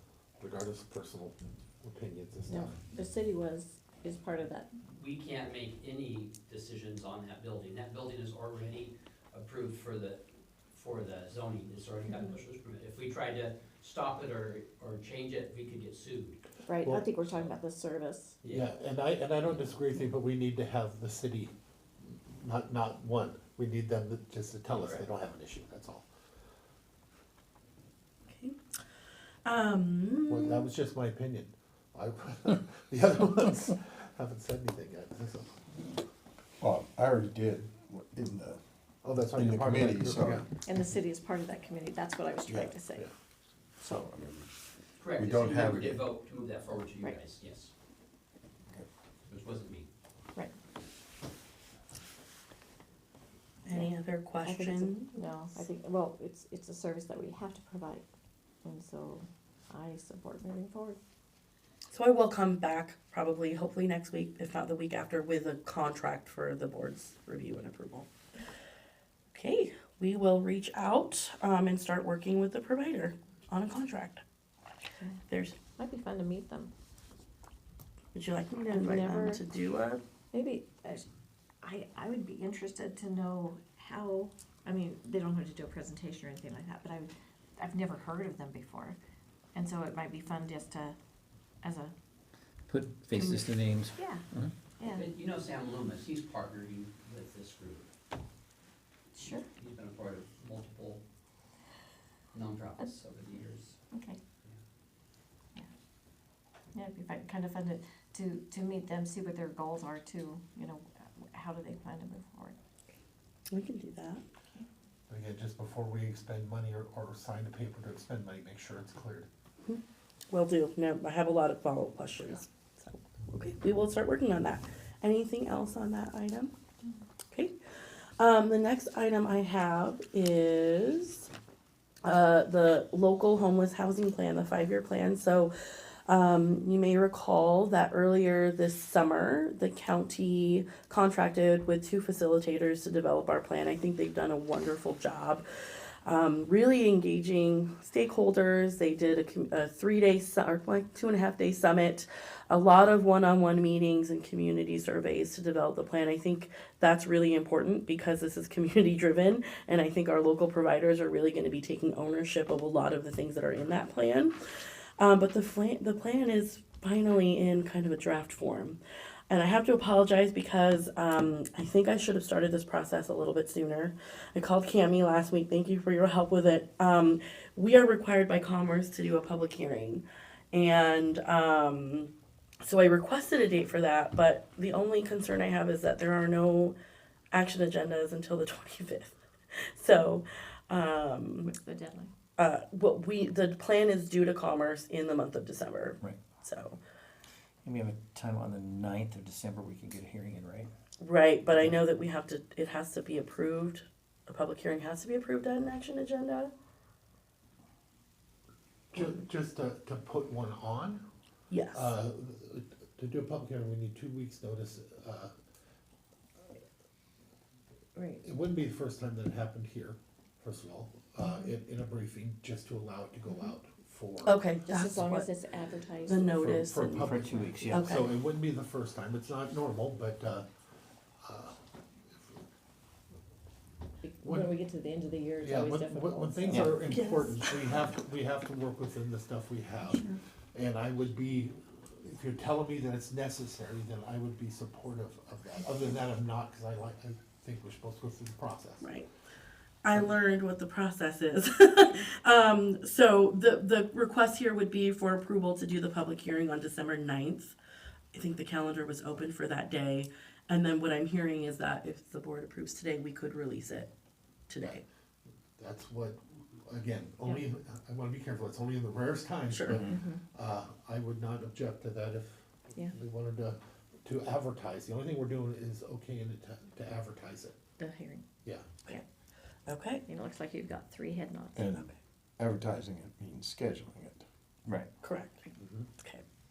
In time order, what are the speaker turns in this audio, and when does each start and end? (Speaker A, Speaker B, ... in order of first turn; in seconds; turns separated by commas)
Speaker A: 0.4-2.8, Speaker B: 2.5-4.7, Speaker C: 4.9-16.4, Speaker B: 16.6-18.4, Speaker A: 16.8-17.1, Speaker C: 18.4-18.7, Speaker A: 18.5-21.5, Speaker A: 22.1-26.0, Speaker C: 24.7-25.0, Speaker D: 28.3-28.5, Speaker D: 29.4-30.7, Speaker A: 30.3-35.6, Speaker E: 36.6-38.6, Speaker A: 39.0-40.5, Speaker E: 39.3-40.5, Speaker B: 40.6-43.1, Speaker A: 42.5-43.1, Speaker E: 43.9-44.4, Speaker C: 45.0-47.7, Speaker E: 45.1-46.0, Speaker C: 49.3-49.9, Speaker D: 53.6-55.3, Speaker B: 53.7-58.0, Speaker B: 58.6-61.0, Speaker D: 61.9-68.1, Speaker D: 69.3-74.2, Speaker D: 75.3-75.6, Speaker B: 75.8-76.7, Speaker D: 78.1-80.0, Speaker B: 78.7-79.4, Speaker B: 80.3-81.0, Speaker B: 81.6-89.0, Speaker B: 89.5-91.0, Speaker B: 91.6-91.9, Speaker F: 92.7-94.5, Speaker B: 93.1-94.2, Speaker B: 94.8-95.1, Speaker C: 94.9-97.9, Speaker B: 99.1-99.5, Speaker C: 99.2-101.0, Speaker C: 102.3-103.8, Speaker B: 103.9-104.2, Speaker B: 106.7-112.5, Speaker D: 113.5-114.2, Speaker A: 115.1-119.3, Speaker D: 119.6-126.5, Speaker D: 128.2-131.3, Speaker D: 132.0-164.3, Speaker D: 165.0-182.1, Speaker D: 182.6-186.8, Speaker D: 187.3-191.5, Speaker B: 191.4-192.1, Speaker D: 192.4-196.8, Speaker F: 197.6-200.7, Speaker D: 201.0-206.5, Speaker A: 208.9-211.0, Speaker D: 211.5-211.9, Speaker A: 211.7-215.3, Speaker B: 217.9-218.2, Speaker A: 218.2-224.3, Speaker D: 224.2-225.3, Speaker B: 224.6-226.4, Speaker D: 226.1-227.2, Speaker A: 226.3-230.5, Speaker F: 227.0-227.9, Speaker D: 227.7-228.1, Speaker A: 231.2-231.6, Speaker B: 234.0-236.8, Speaker A: 234.2-234.5, Speaker A: 235.4-248.9, Speaker D: 236.9-237.8, Speaker D: 248.8-249.1, Speaker D: 249.8-257.5, Speaker D: 258.1-263.9, Speaker D: 264.5-264.8, Speaker A: 265.6-277.6, Speaker D: 269.5-269.9, Speaker B: 269.8-270.2, Speaker B: 277.8-278.2, Speaker A: 278.4-278.7, Speaker D: 279.6-280.0, Speaker B: 280.1-281.6, Speaker E: 281.6-284.2, Speaker D: 285.0-285.4, Speaker A: 285.6-285.9